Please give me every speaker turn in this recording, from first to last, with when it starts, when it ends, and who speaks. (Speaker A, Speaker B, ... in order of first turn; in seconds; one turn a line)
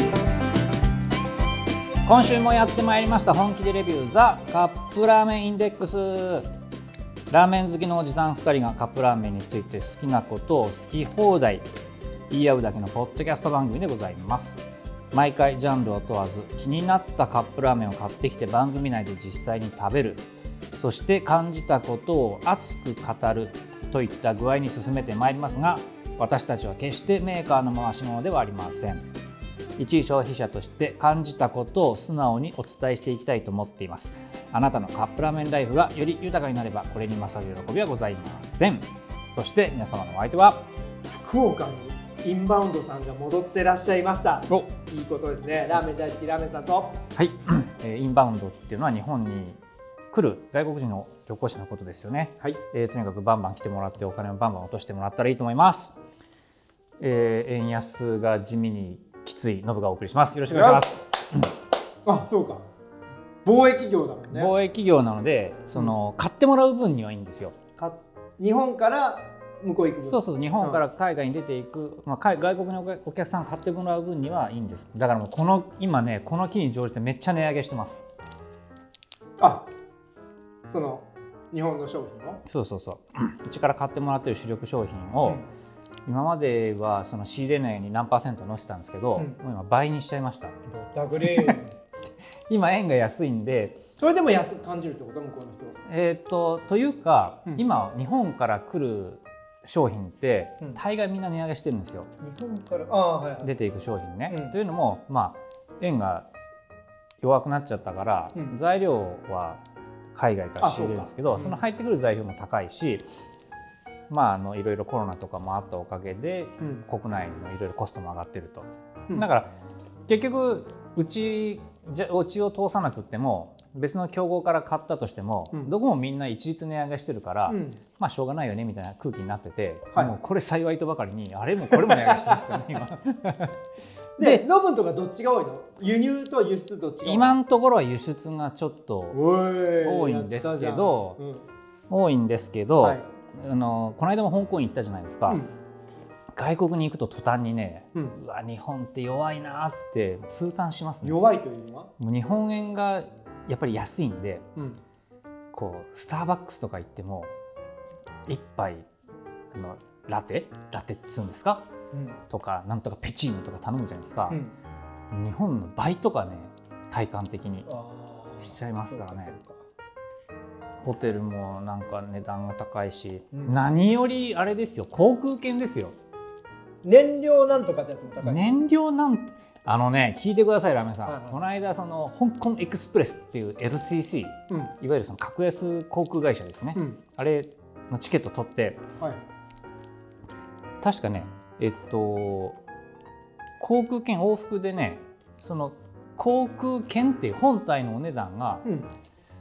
Speaker A: 2.0-6.5
Speaker A: 7.3-11.7
Speaker A: 12.3-14.6
Speaker A: 15.1-20.2
Speaker A: 20.8-29.1
Speaker A: 29.8-40.6
Speaker B: 41.0-47.0
Speaker A: 47.1-49.6
Speaker A: 50.1-55.9
Speaker A: 57.0-61.5
Speaker B: 60.5-60.9
Speaker B: 62.0-62.6
Speaker B: 63.5-64.5
Speaker A: 64.3-67.6
Speaker B: 67.8-70.8
Speaker A: 70.0-78.1
Speaker B: 79.4-79.7
Speaker B: 80.7-82.4
Speaker A: 82.5-85.4
Speaker A: 86.1-90.7
Speaker B: 90.8-91.8
Speaker A: 91.2-91.6
Speaker A: 92.5-93.8
Speaker B: 94.0-95.8
Speaker A: 95.8-102.1
Speaker B: 102.2-103.5
Speaker A: 103.4-106.3
Speaker B: 104.3-104.6
Speaker A: 107.2-109.6
Speaker A: 110.2-113.1
Speaker B: 110.6-111.6
Speaker A: 114.1-119.5
Speaker B: 116.6-116.8
Speaker A: 120.1-133.6
Speaker B: 127.5-127.8
Speaker B: 129.9-130.2
Speaker B: 131.7-132.6
Speaker B: 134.2-137.4
Speaker A: 134.2-134.4
Speaker A: 137.0-139.2
Speaker B: 139.1-141.4
Speaker A: 139.8-141.2
Speaker A: 141.9-145.4
Speaker B: 145.3-145.5
Speaker A: 146.3-151.2
Speaker B: 151.0-151.9
Speaker A: 152.0-154.5
Speaker B: 154.6-154.8
Speaker A: 155.5-157.3
Speaker A: 158.3-158.9
Speaker A: 159.5-161.7
Speaker B: 161.9-162.2
Speaker A: 162.3-164.4
Speaker B: 164.3-164.5
Speaker A: 165.1-167.7
Speaker B: 167.7-169.6
Speaker A: 168.4-169.3
Speaker A: 170.8-175.9
Speaker B: 173.3-173.6
Speaker B: 176.8-178.6
Speaker A: 178.2-188.8
Speaker B: 181.1-181.4
Speaker B: 186.8-187.0
Speaker B: 189.0-189.2
Speaker A: 190.8-192.6
Speaker A: 193.6-198.6
Speaker B: 198.6-198.9